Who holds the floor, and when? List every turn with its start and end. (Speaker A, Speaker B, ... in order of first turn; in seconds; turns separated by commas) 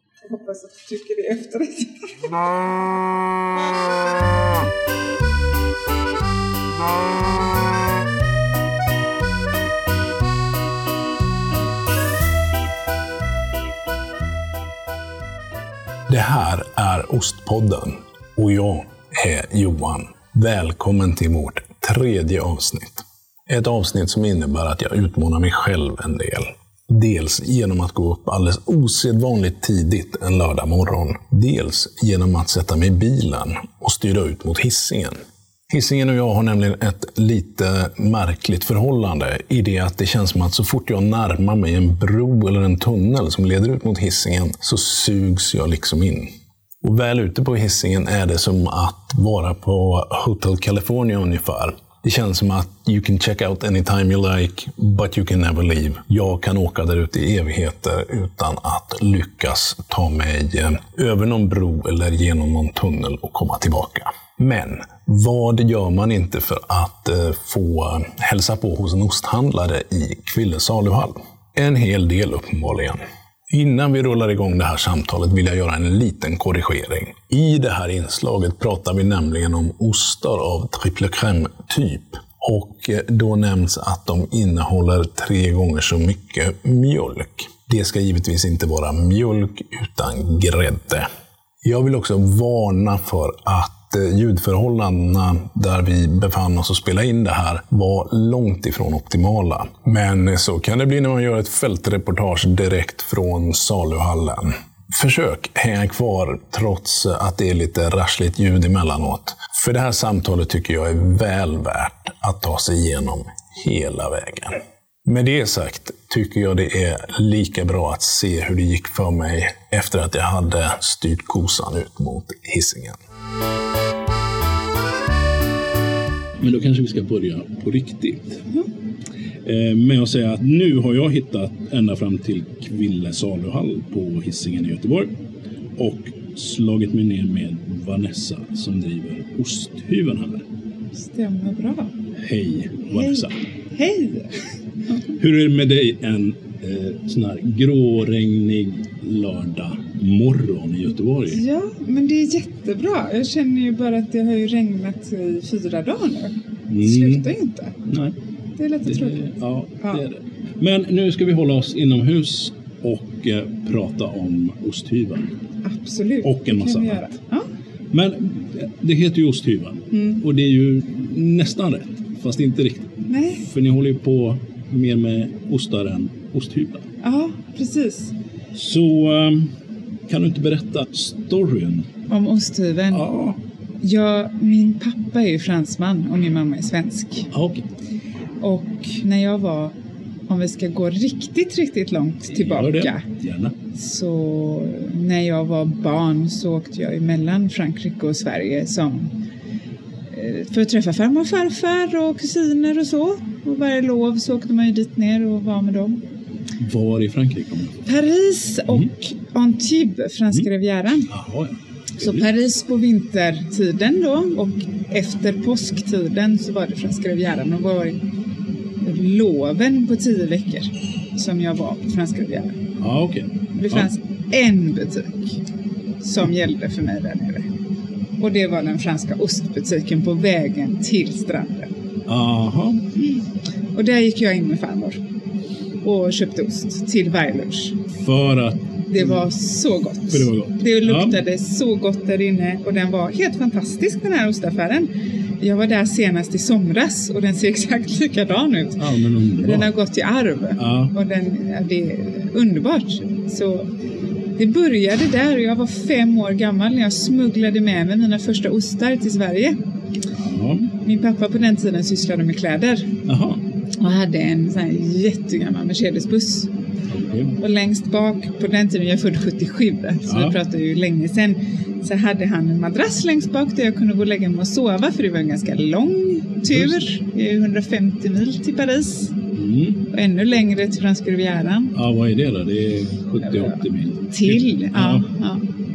Speaker A: 0.2-2.4, Speaker B: 16.1-35.2, Speaker B: 35.7-46.3, Speaker B: 46.8-73.0, Speaker B: 73.5-91.1, Speaker B: 91.6-123.0, Speaker C: 126.4-128.4, Speaker C: 129.4-135.1, Speaker C: 135.8-140.4, Speaker A: 141.0-141.9, Speaker C: 142.2-143.3, Speaker A: 142.9-144.3, Speaker C: 145.1-151.4, Speaker A: 151.3-157.8, Speaker C: 156.7-157.3, Speaker C: 157.9-158.1, Speaker A: 158.6-159.2, Speaker C: 158.8-165.3, Speaker A: 165.6-167.4, Speaker C: 166.2-167.0, Speaker C: 167.9-172.9, Speaker A: 169.9-170.2, Speaker A: 173.1-173.4, Speaker C: 173.4-176.9, Speaker A: 177.0-178.1, Speaker C: 178.5-179.5, Speaker C: 180.1-181.9, Speaker A: 182.1-183.0, Speaker C: 182.9-183.4, Speaker A: 183.8-187.3, Speaker C: 187.3-187.7, Speaker A: 188.4-189.7, Speaker A: 190.3-193.0, Speaker C: 192.3-193.5, Speaker A: 193.7-199.1, Speaker A: 200.1-206.0, Speaker C: 206.6-207.8, Speaker A: 207.8-211.1, Speaker C: 211.1-212.2, Speaker A: 212.0-218.0, Speaker A: 218.8-222.5, Speaker C: 222.8-223.9, Speaker A: 223.5-225.3, Speaker A: 226.0-227.4, Speaker A: 228.2-231.7, Speaker C: 232.1-232.8, Speaker A: 233.0-233.2, Speaker A: 233.7-235.0, Speaker A: 235.8-237.7, Speaker C: 238.0-239.1, Speaker A: 238.9-244.9, Speaker C: 240.1-241.2, Speaker A: 245.4-248.8, Speaker C: 248.8-249.7, Speaker A: 249.4-253.7, Speaker C: 250.6-250.9, Speaker A: 254.4-259.6, Speaker C: 260.2-260.7, Speaker A: 260.8-262.9, Speaker C: 263.1-263.4, Speaker A: 263.8-266.5, Speaker C: 266.9-267.4, Speaker A: 267.4-279.1, Speaker C: 270.1-270.3, Speaker C: 276.5-276.8, Speaker C: 279.3-279.8, Speaker A: 279.9-281.7, Speaker C: 281.7-285.1, Speaker A: 284.1-285.4